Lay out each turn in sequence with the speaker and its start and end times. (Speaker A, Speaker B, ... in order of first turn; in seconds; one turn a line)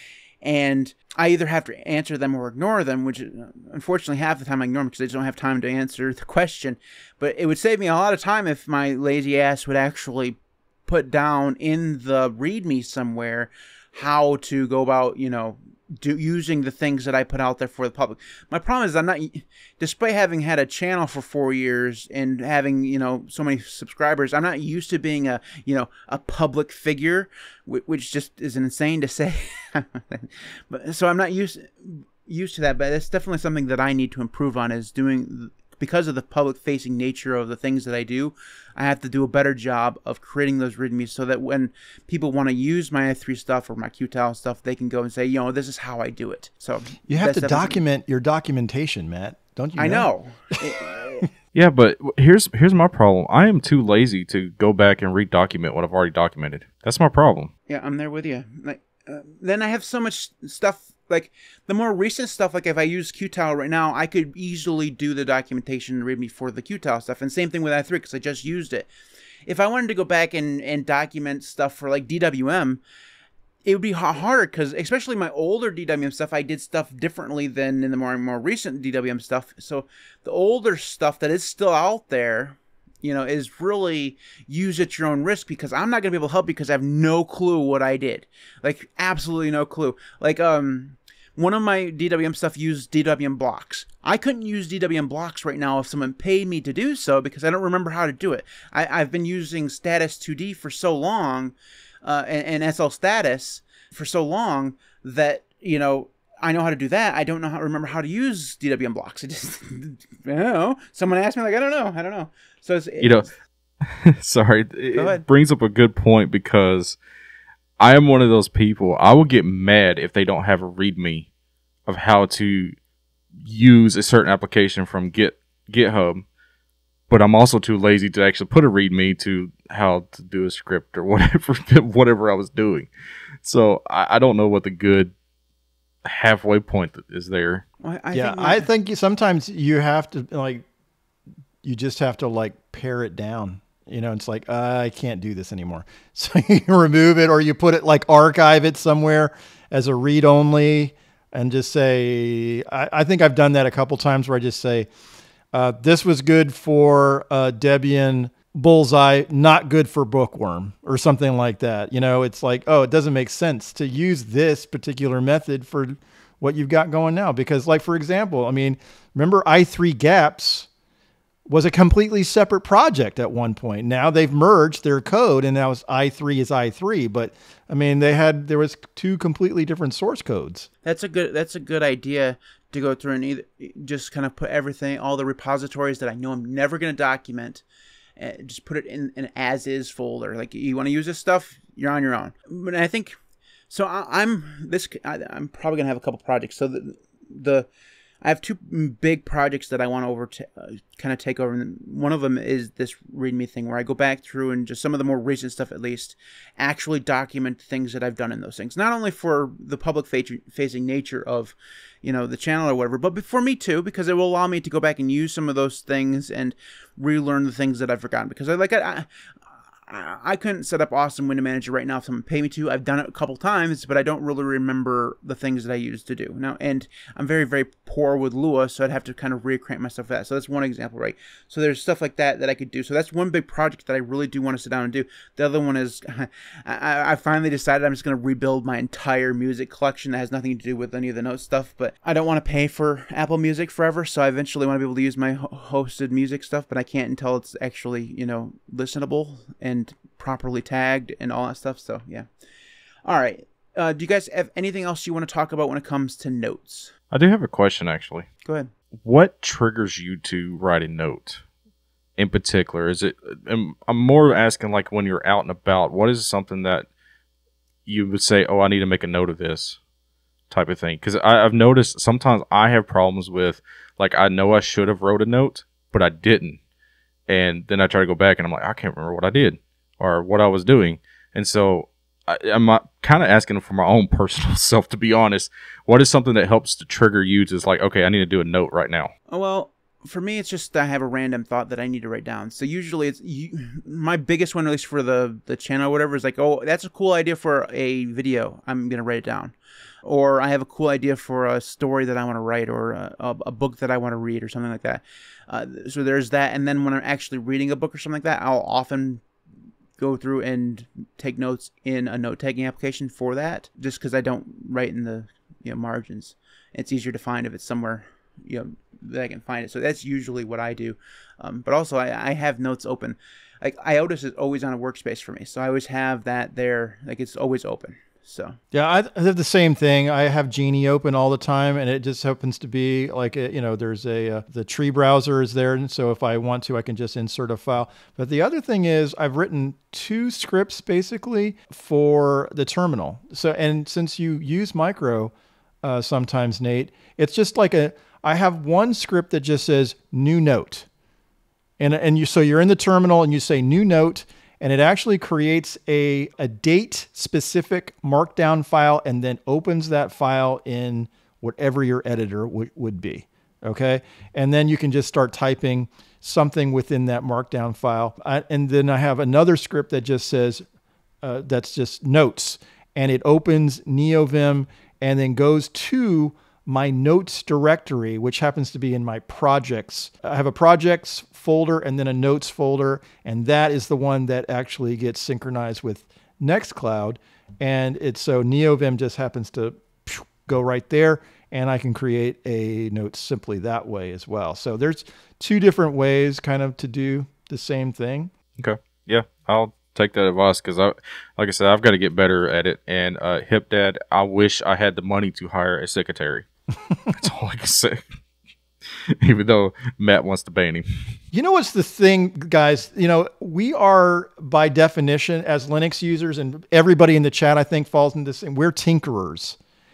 Speaker A: 0.4-47.8
Speaker B: 47.1-50.1
Speaker A: 49.8-51.3
Speaker C: 51.5-57.5
Speaker A: 57.7-68.9
Speaker A: 69.5-72.8
Speaker A: 73.6-113.3
Speaker C: 113.0-113.3
Speaker C: 113.8-117.0
Speaker A: 115.0-115.2
Speaker C: 117.8-121.3
Speaker C: 121.8-122.7
Speaker C: 123.4-126.2
Speaker C: 127.1-132.9
Speaker C: 133.4-135.1
Speaker C: 136.0-137.6
Speaker A: 137.8-138.7
Speaker B: 138.1-140.6
Speaker B: 141.6-154.9
Speaker B: 155.5-170.7
Speaker B: 171.5-180.7
Speaker A: 180.8-187.6
Speaker A: 188.2-193.1
Speaker A: 193.7-197.7
Speaker A: 198.2-219.1
Speaker A: 219.9-252.3
Speaker A: 253.0-256.9
Speaker C: 257.1-258.3
Speaker A: 258.4-258.7
Speaker C: 259.0-261.4
Speaker C: 262.2-266.9
Speaker C: 267.9-269.8
Speaker C: 270.5-276.6
Speaker C: 277.3-289.1
Speaker A: 289.3-309.2
Speaker A: 310.0-328.6
Speaker B: 328.7-345.3
Speaker B: 345.8-350.9
Speaker B: 351.8-370.6
Speaker B: 371.2-398.3
Speaker C: 398.6-406.4
Speaker C: 407.1-408.0
Speaker C: 409.2-411.1
Speaker B: 411.3-419.6